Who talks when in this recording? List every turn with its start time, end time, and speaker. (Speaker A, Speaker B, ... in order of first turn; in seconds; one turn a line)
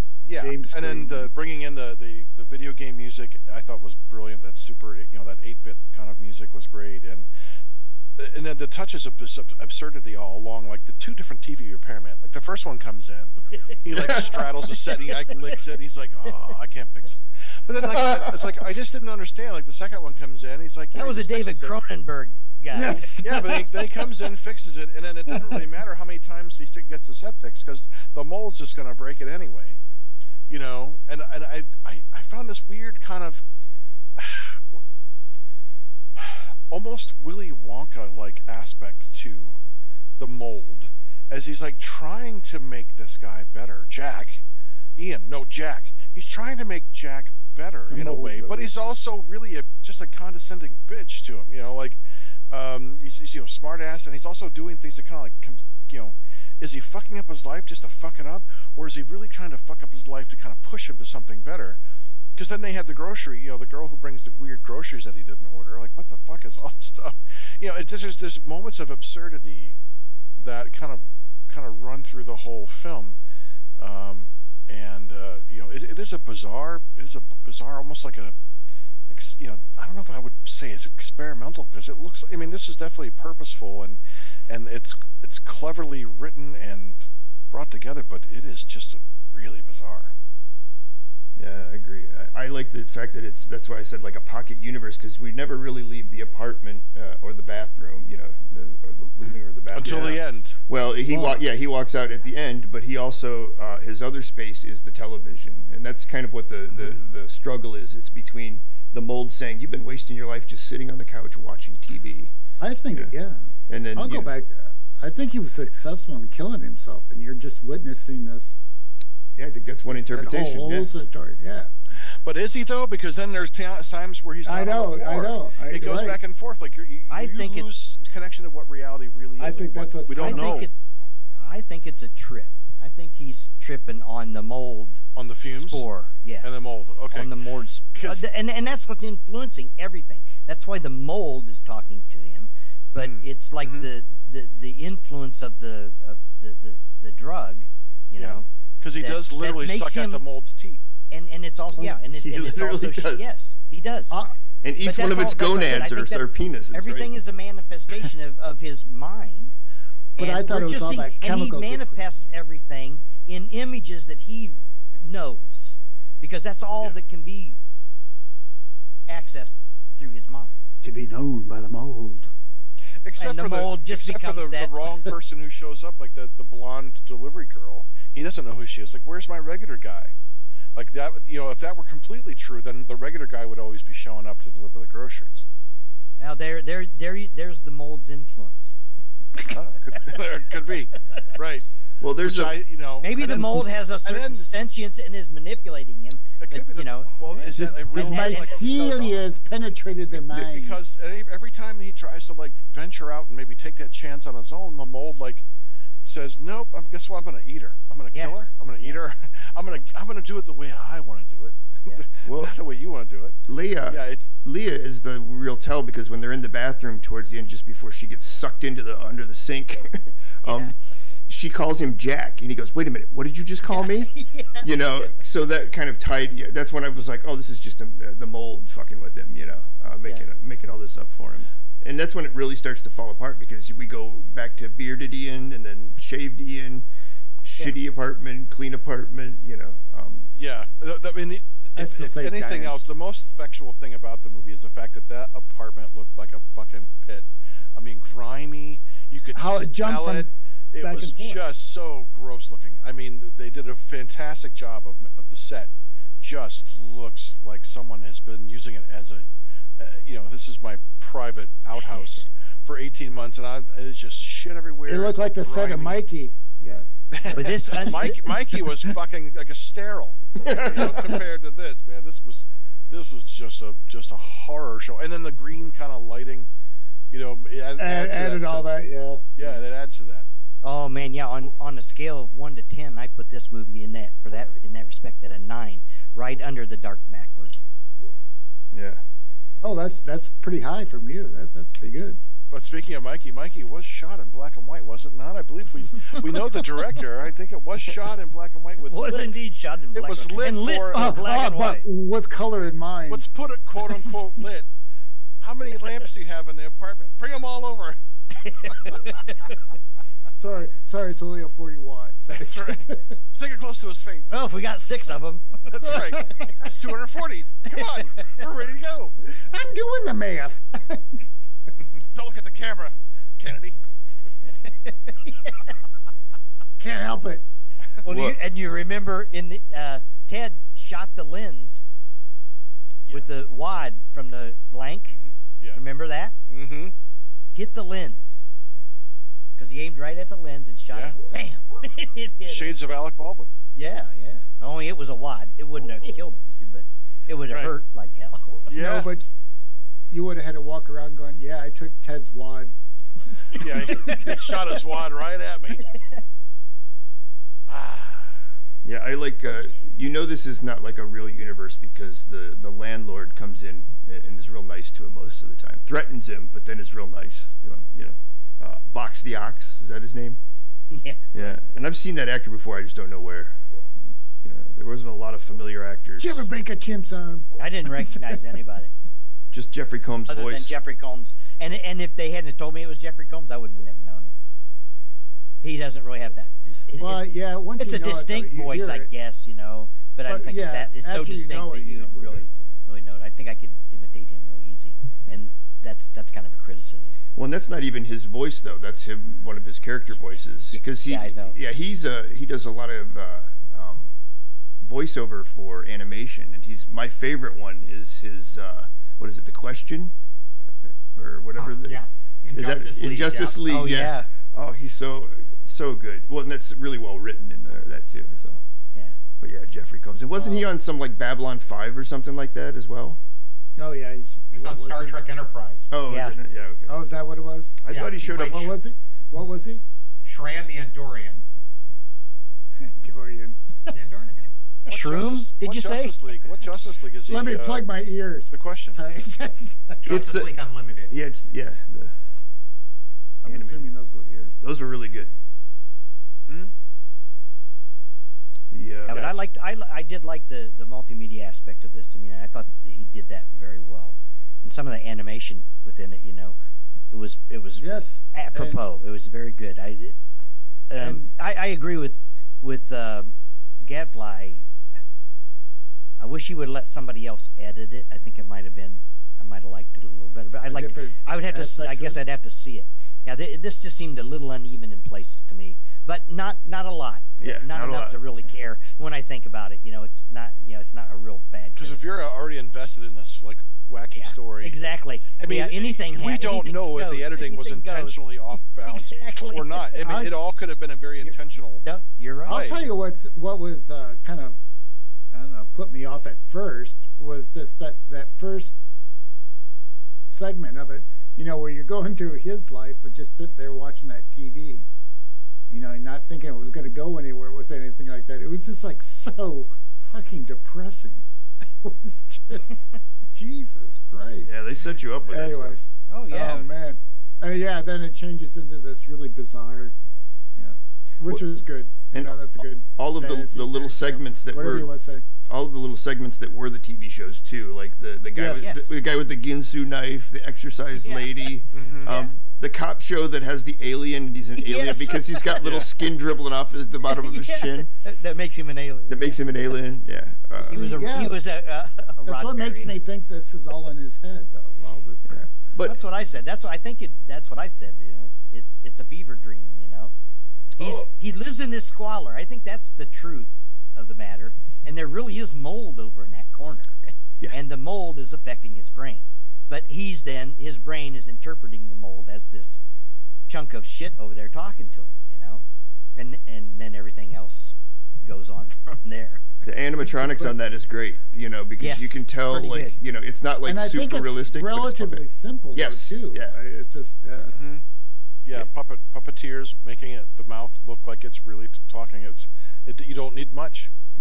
Speaker A: 0.2-7.3
Speaker B: 0.4-1.3
Speaker A: 8.2-21.8
Speaker C: 13.6-14.1
Speaker D: 13.9-14.3
Speaker C: 15.0-15.5
Speaker D: 18.1-18.3
Speaker C: 20.9-23.1
Speaker B: 22.7-24.2
Speaker A: 23.2-29.8
Speaker B: 25.3-25.6
Speaker A: 30.5-33.4
Speaker A: 34.2-34.6
Speaker A: 36.1-39.6
Speaker A: 40.2-44.4
Speaker A: 45.0-61.8
Speaker B: 47.9-48.7
Speaker A: 62.3-69.8
Speaker A: 70.4-73.2
Speaker A: 73.8-78.3
Speaker A: 79.1-90.1
Speaker D: 91.4-112.3
Speaker A: 99.2-100.6
Speaker B: 101.1-101.4
Speaker A: 106.7-107.0
Speaker B: 112.6-113.4
Speaker D: 113.7-114.3
Speaker B: 114.0-118.5
Speaker D: 119.3-120.9
Speaker B: 119.9-121.7
Speaker A: 122.0-130.7
Speaker B: 124.4-126.2
Speaker C: 127.1-127.9
Speaker B: 129.4-130.7
Speaker C: 130.2-130.8
Speaker C: 131.4-136.5
Speaker A: 135.1-135.8
Speaker A: 136.4-137.3
Speaker C: 137.1-150.2
Speaker A: 137.9-138.2
Speaker A: 142.9-143.9
Speaker A: 148.2-150.8
Speaker C: 151.1-154.2
Speaker D: 152.1-153.3
Speaker D: 154.6-157.2
Speaker C: 154.8-159.6
Speaker C: 160.2-167.6
Speaker B: 160.2-162.1
Speaker C: 169.1-170.7
Speaker B: 170.8-172.3
Speaker A: 173.0-180.1
Speaker C: 173.2-174.8
Speaker A: 180.7-185.5
Speaker C: 186.2-188.8
Speaker A: 189.5-191.7
Speaker D: 192.0-192.6
Speaker A: 192.2-194.5
Speaker C: 193.0-199.2
Speaker B: 193.3-193.6
Speaker A: 196.4-199.1
Speaker B: 197.5-200.8
Speaker A: 200.3-205.4
Speaker A: 206.0-213.4
Speaker C: 208.1-209.0
Speaker D: 212.2-212.5
Speaker D: 213.5-220.8
Speaker A: 213.9-214.3
Speaker C: 220.4-220.7
Speaker D: 221.3-236.9
Speaker C: 223.7-225.1
Speaker C: 230.0-230.3
Speaker D: 237.4-240.3
Speaker A: 240.3-259.2
Speaker B: 241.8-242.7
Speaker B: 249.3-250.3
Speaker B: 250.8-251.4
Speaker A: 259.8-266.0
Speaker B: 264.9-268.6
Speaker A: 267.1-276.5
Speaker C: 267.3-268.2
Speaker D: 270.4-271.2
Speaker A: 277.1-278.8
Speaker B: 277.8-279.5
Speaker A: 279.4-280.2
Speaker C: 280.6-287.6
Speaker D: 288.7-289.0
Speaker B: 289.6-292.2
Speaker A: 292.5-299.4
Speaker C: 298.8-301.8
Speaker A: 299.9-301.2
Speaker B: 300.9-303.2
Speaker A: 303.1-304.7
Speaker B: 303.8-304.3
Speaker A: 305.4-308.0
Speaker C: 308.3-309.5
Speaker A: 308.6-309.0
Speaker B: 310.4-313.1
Speaker A: 312.3-314.3
Speaker C: 314.3-315.6
Speaker A: 315.6-319.1
Speaker B: 315.8-316.5
Speaker B: 319.2-321.7
Speaker A: 322.1-323.8
Speaker C: 324.7-325.7
Speaker B: 326.8-327.4
Speaker C: 328.0-331.9
Speaker D: 328.0-328.4
Speaker A: 333.0-333.3
Speaker C: 333.1-335.1
Speaker A: 335.1-335.8
Speaker C: 335.7-336.3
Speaker A: 336.5-336.9
Speaker C: 337.5-338.4
Speaker C: 339.6-342.8
Speaker A: 340.9-341.1
Speaker A: 342.5-343.5
Speaker C: 343.7-348.6
Speaker A: 347.5-347.8
Speaker A: 348.7-349.1
Speaker B: 348.7-349.3
Speaker B: 350.1-352.7
Speaker B: 353.3-354.5
Speaker A: 353.5-355.8
Speaker C: 353.9-354.3
Speaker C: 355.9-356.2
Speaker A: 357.7-358.4
Speaker D: 358.8-370.4
Speaker C: 370.9-371.6
Speaker D: 371.3-373.6
Speaker D: 374.4-376.4
Speaker B: 376.2-378.4
Speaker C: 377.6-378.9
Speaker D: 379.5-380.7
Speaker C: 380.3-384.3
Speaker C: 385.6-387.2
Speaker B: 387.0-389.1
Speaker C: 387.8-397.2
Speaker B: 390.3-392.7
Speaker D: 397.3-404.1
Speaker C: 400.7-401.6
Speaker D: 404.8-410.1
Speaker D: 411.1-412.0
Speaker E: 411.6-413.6
Speaker D: 412.5-418.6
Speaker C: 413.6-414.3
Speaker D: 419.4-423.2
Speaker B: 420.3-420.7
Speaker B: 423.8-425.2
Speaker E: 424.5-425.9
Speaker D: 425.9-426.9
Speaker C: 426.1-426.4
Speaker B: 426.9-427.8
Speaker D: 427.8-428.7
Speaker E: 427.9-428.7
Speaker B: 428.4-429.8
Speaker E: 430.2-431.4
Speaker B: 432.8-433.6
Speaker E: 433.9-434.5
Speaker A: 434.9-437.9
Speaker C: 434.9-436.2
Speaker B: 437.3-440.0
Speaker A: 438.5-439.0
Speaker E: 440.0-441.2
Speaker D: 440.1-440.6
Speaker D: 441.1-442.1
Speaker D: 443.4-443.9
Speaker B: 443.4-444.6
Speaker D: 444.6-445.3
Speaker A: 446.5-446.7
Speaker D: 448.7-449.3
Speaker C: 449.1-456.6
Speaker A: 449.1-449.3
Speaker C: 457.1-460.1
Speaker B: 457.8-458.8
Speaker C: 460.9-464.6
Speaker B: 461.0-461.3
Speaker C: 466.2-482.1
Speaker B: 470.7-472.2
Speaker D: 477.4-478.5
Speaker A: 481.8-484.8
Speaker C: 484.1-490.1
Speaker A: 485.4-491.8
Speaker B: 490.0-490.3
Speaker C: 491.2-492.7
Speaker A: 492.4-492.9
Speaker B: 492.5-494.6
Speaker B: 495.3-498.7
Speaker B: 500.3-504.9
Speaker B: 505.7-512.8
Speaker B: 513.3-514.5
Speaker D: 514.4-515.8
Speaker B: 515.3-515.8
Speaker C: 516.1-516.7
Speaker B: 516.3-519.9
Speaker B: 520.5-525.2
Speaker D: 522.1-524.9
Speaker D: 525.5-537.9
Speaker B: 528.3-528.7
Speaker C: 528.5-528.9
Speaker C: 531.0-532.4
Speaker A: 531.7-532.1
Speaker C: 534.5-535.6
Speaker A: 535.6-535.9
Speaker C: 537.0-539.5
Speaker D: 539.1-540.9
Speaker C: 540.6-543.0
Speaker B: 540.6-541.4
Speaker B: 542.2-545.5
Speaker D: 545.3-546.0
Speaker C: 545.8-550.1
Speaker D: 550.8-551.1
Speaker C: 550.8-562.8
Speaker C: 563.5-565.6
Speaker C: 566.1-569.4
Speaker D: 569.6-576.5
Speaker B: 570.0-570.5
Speaker C: 571.8-573.0
Speaker B: 573.6-577.5
Speaker A: 577.5-577.8
Speaker A: 578.4-583.9